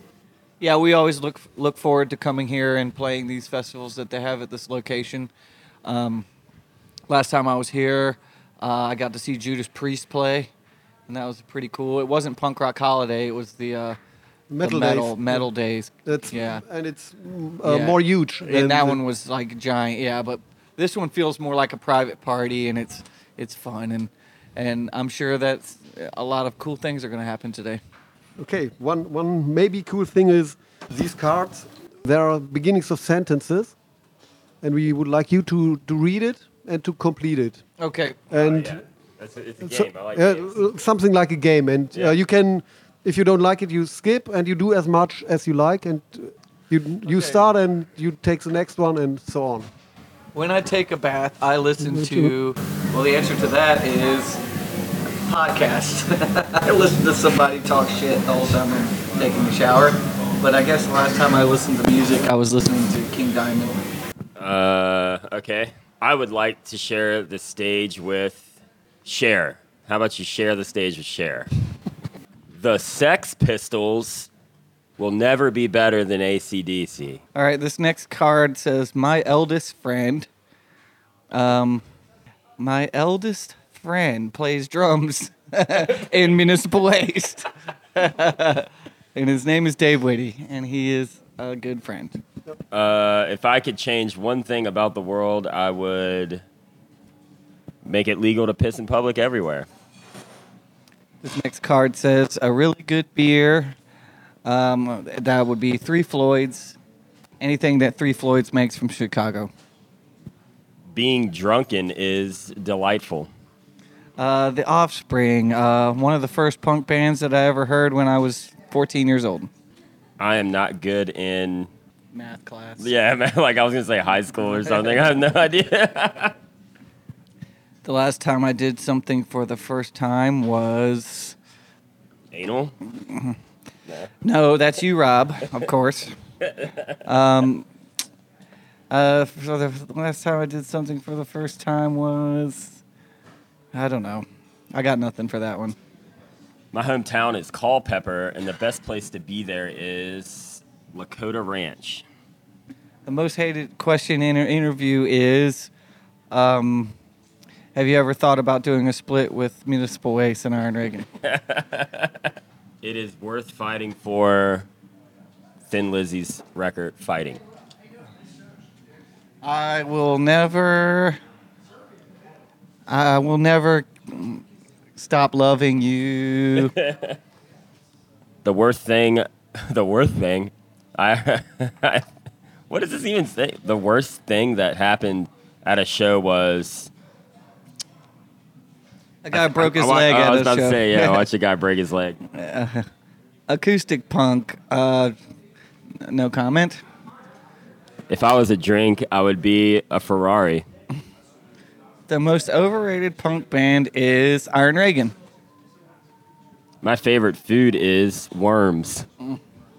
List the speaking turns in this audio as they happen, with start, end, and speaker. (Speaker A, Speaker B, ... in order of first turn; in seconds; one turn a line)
Speaker A: 0.6-5.3
Speaker A: 5.8-6.3
Speaker A: 7.1-10.5
Speaker A: 11.1-14.0
Speaker B: 14.5-15.5
Speaker A: 14.6-16.6
Speaker B: 16.1-19.0
Speaker A: 17.6-27.8
Speaker B: 28.4-33.8
Speaker B: 34.6-37.6
Speaker A: 37.8-38.2
Speaker B: 38.3-38.8
Speaker C: 38.3-40.6
Speaker B: 39.6-49.7
Speaker A: 47.0-47.4
Speaker A: 50.3-54.4
Speaker B: 51.8-52.3
Speaker A: 55.3-63.8
Speaker C: 64.4-68.5
Speaker C: 69.0-71.5
Speaker C: 72.5-74.3
Speaker C: 75.0-77.2
Speaker A: 77.3-80.3
Speaker A: 81.3-81.8
Speaker A: 82.6-92.2
Speaker C: 92.7-96.4
Speaker C: 97.8-99.7
Speaker A: 101.2-103.8
Speaker A: 104.5-106.8
Speaker A: 107.4-109.5
Speaker C: 110.9-113.3
Speaker A: 114.2-119.5
Speaker C: 120.2-121.7
Speaker A: 122.1-122.9
Speaker C: 122.8-126.4
Speaker A: 127.8-131.4
Speaker C: 132.3-132.8
Speaker A: 132.9-133.4
Speaker A: 134.2-136.1
Speaker A: 137.1-137.7
Speaker A: 138.9-142.8
Speaker A: 143.7-145.8
Speaker C: 146.7-152.1
Speaker A: 153.1-155.7
Speaker A: 156.3-156.9
Speaker A: 157.8-161.1
Speaker C: 161.3-162.3
Speaker C: 162.8-164.7
Speaker C: 165.7-167.4
Speaker A: 169.4-171.2
Speaker A: 172.9-174.4
Speaker A: 175.0-176.7
Speaker C: 178.4-182.1
Speaker C: 182.7-186.9
Speaker A: 189.2-191.2
Speaker C: 189.3-192.2
Speaker A: 192.3-192.8
Speaker A: 193.5-195.1
Speaker A: 196.0-196.8
Speaker C: 198.1-200.7
Speaker A: 202.1-205.2
Speaker C: 206.8-209.1